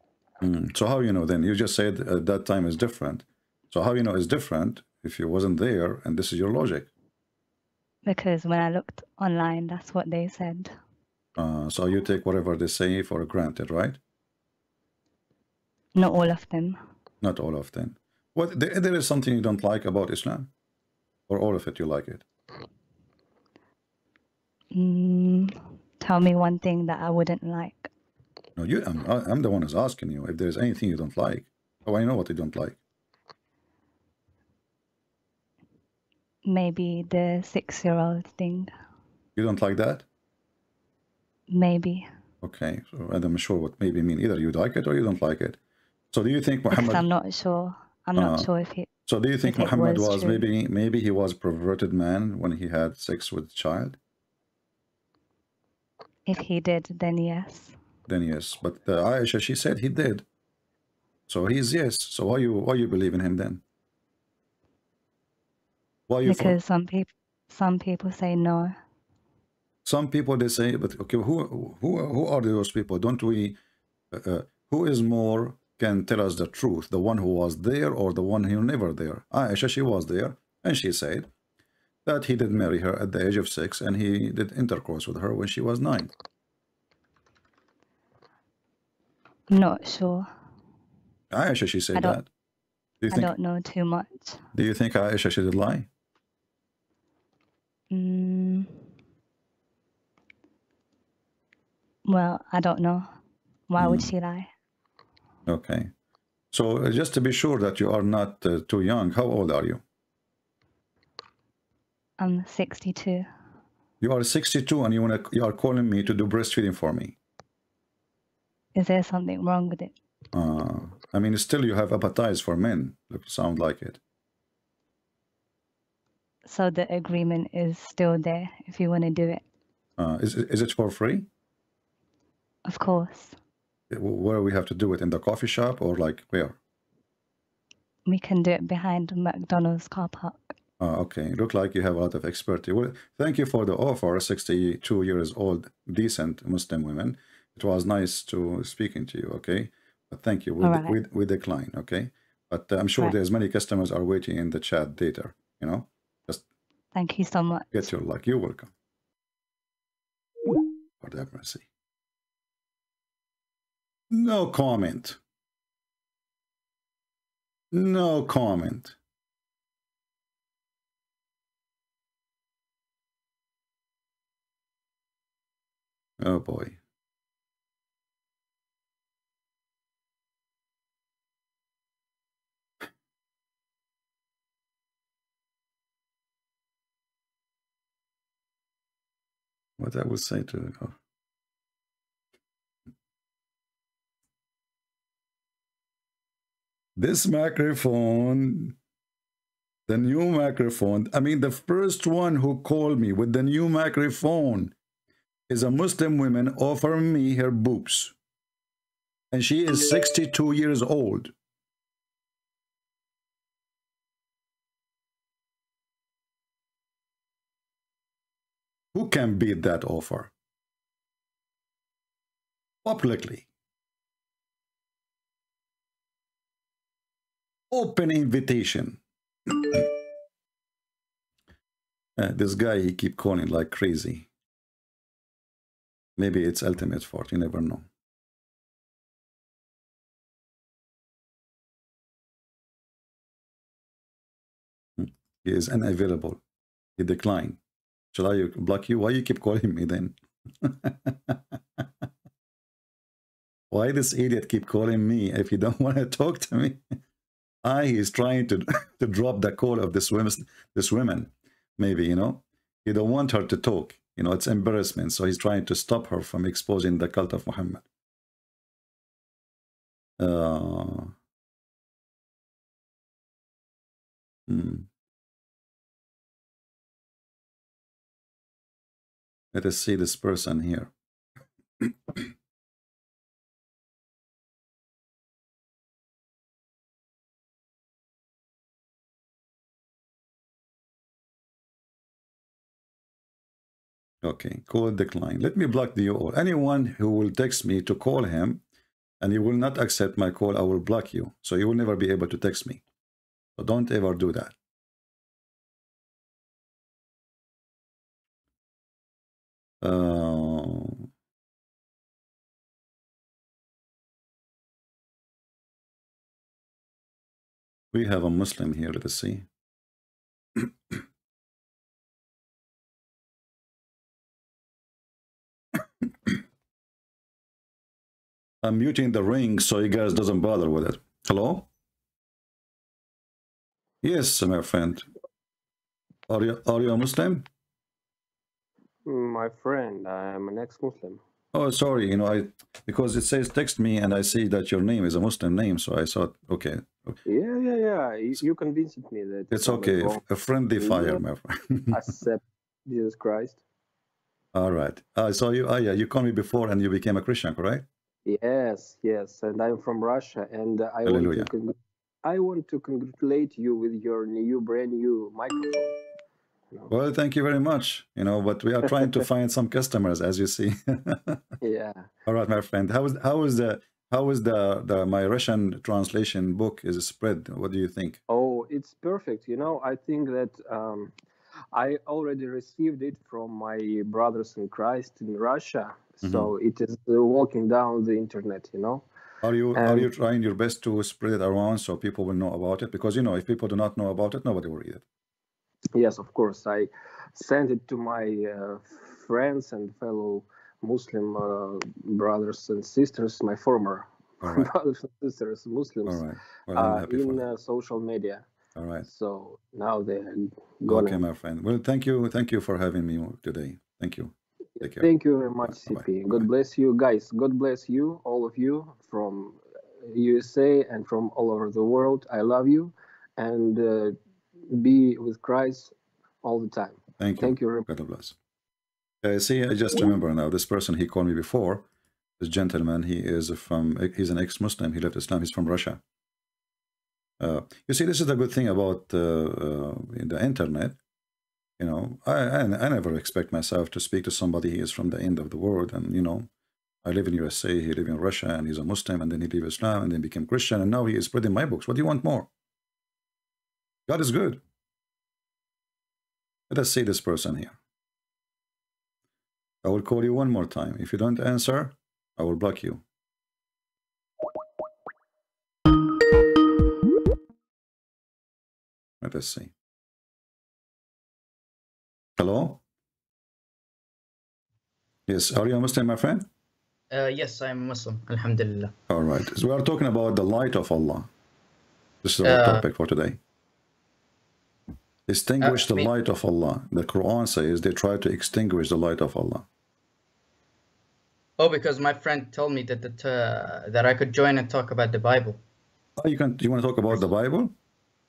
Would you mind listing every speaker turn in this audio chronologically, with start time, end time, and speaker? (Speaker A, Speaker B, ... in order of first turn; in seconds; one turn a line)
Speaker A: 0.4-6.9
Speaker B: 8.1-10.7
Speaker A: 11.4-14.0
Speaker B: 15.9-16.8
Speaker A: 17.2-20.5
Speaker A: 21.3-22.2
Speaker B: 24.7-27.9
Speaker A: 28.6-32.8
Speaker B: 36.5-38.7
Speaker A: 39.4-40.0
Speaker B: 41.5-42.1
Speaker A: 42.4-45.6
Speaker A: 46.1-47.1
Speaker B: 46.7-48.9
Speaker A: 48.2-48.5
Speaker A: 49.1-54.0
Speaker B: 49.4-50.5
Speaker B: 56.3-57.8
Speaker A: 58.1-60.2
Speaker A: 61.3-63.6
Speaker A: 66.1-66.6
Speaker B: 66.2-68.8
Speaker A: 69.8-73.6
Speaker A: 74.1-81.3
Speaker A: 82.0-86.1
Speaker B: 89.5-90.3
Speaker A: 91.3-92.2
Speaker B: 92.0-92.2
Speaker A: 93.0-93.3
Speaker B: 93.1-94.4
Speaker A: 94.5-95.9
Speaker B: 97.9-98.7
Speaker B: 102.1-103.1
Speaker B: 103.7-104.5
Speaker A: 103.8-104.1
Speaker A: 105.5-105.9
Speaker A: 106.5-109.8
Speaker B: 112.2-113.3
Speaker A: 114.0-117.2
Speaker B: 118.8-119.9
Speaker A: 120.3-124.0
Speaker B: 126.5-129.4
Speaker A: 130.0-131.3
Speaker B: 132.7-133.4
Speaker A: 133.9-136.6
Speaker B: 138.1-140.5
Speaker A: 140.8-156.4
Speaker B: 150.6-151.0
Speaker B: 156.9-157.9
Speaker A: 157.7-158.7
Speaker A: 161.0-161.6
Speaker A: 164.1-165.2
Speaker A: 167.7-168.9
Speaker A: 176.2-176.8
Speaker A: 189.8-190.9
Speaker A: 197.0-198.7
Speaker A: 199.9-204.7
Speaker A: 205.5-208.1
Speaker A: 209.3-211.3
Speaker A: 218.9-220.3
Speaker A: 222.8-223.5
Speaker A: 227.7-229.8
Speaker A: 232.2-234.3
Speaker A: 236.2-237.8
Speaker A: 245.0-246.4
Speaker A: 247.0-247.6
Speaker A: 248.1-251.4
Speaker A: 253.7-256.8
Speaker A: 257.6-267.8
Speaker A: 270.2-271.1
Speaker A: 274.5-274.9
Speaker A: 279.5-280.9
Speaker A: 294.2-298.6
Speaker A: 299.2-302.8
Speaker A: 303.6-304.5
Speaker A: 309.8-311.1
Speaker A: 317.9-319.5
Speaker A: 328.6-331.7
Speaker A: 334.0-335.1
Speaker A: 336.3-337.5
Speaker C: 339.1-341.2
Speaker A: 341.5-347.2
Speaker C: 347.3-350.2
Speaker A: 349.5-352.0
Speaker C: 350.8-351.2
Speaker C: 351.9-353.6
Speaker A: 354.5-357.9
Speaker C: 358.3-366.0
Speaker A: 361.1-361.5
Speaker A: 366.9-371.4
Speaker C: 371.6-372.1
Speaker A: 372.3-378.2
Speaker C: 378.3-381.1
Speaker C: 381.7-389.1
Speaker A: 386.2-386.5
Speaker A: 389.4-395.0
Speaker C: 389.8-390.1
Speaker C: 395.9-406.2
Speaker A: 404.4-404.7
Speaker A: 406.1-407.5
Speaker C: 406.8-408.4
Speaker A: 408.8-409.1
Speaker C: 409.0-411.2
Speaker A: 410.9-415.1
Speaker C: 415.0-424.2
Speaker A: 415.6-416.5
Speaker C: 424.7-427.9
Speaker A: 427.2-428.3
Speaker A: 429.2-431.9
Speaker A: 432.4-436.0
Speaker A: 437.4-441.0
Speaker A: 441.8-446.5
Speaker A: 447.1-452.5
Speaker A: 454.1-454.6
Speaker A: 456.7-457.8
Speaker A: 459.8-463.0
Speaker A: 469.2-469.7
Speaker A: 472.4-472.8
Speaker A: 475.3-476.5
Speaker D: 477.1-478.9
Speaker A: 479.1-481.3
Speaker A: 482.2-483.4
Speaker D: 482.4-482.9
Speaker A: 485.3-489.6
Speaker D: 485.6-486.1
Speaker D: 491.6-495.6
Speaker A: 496.2-497.7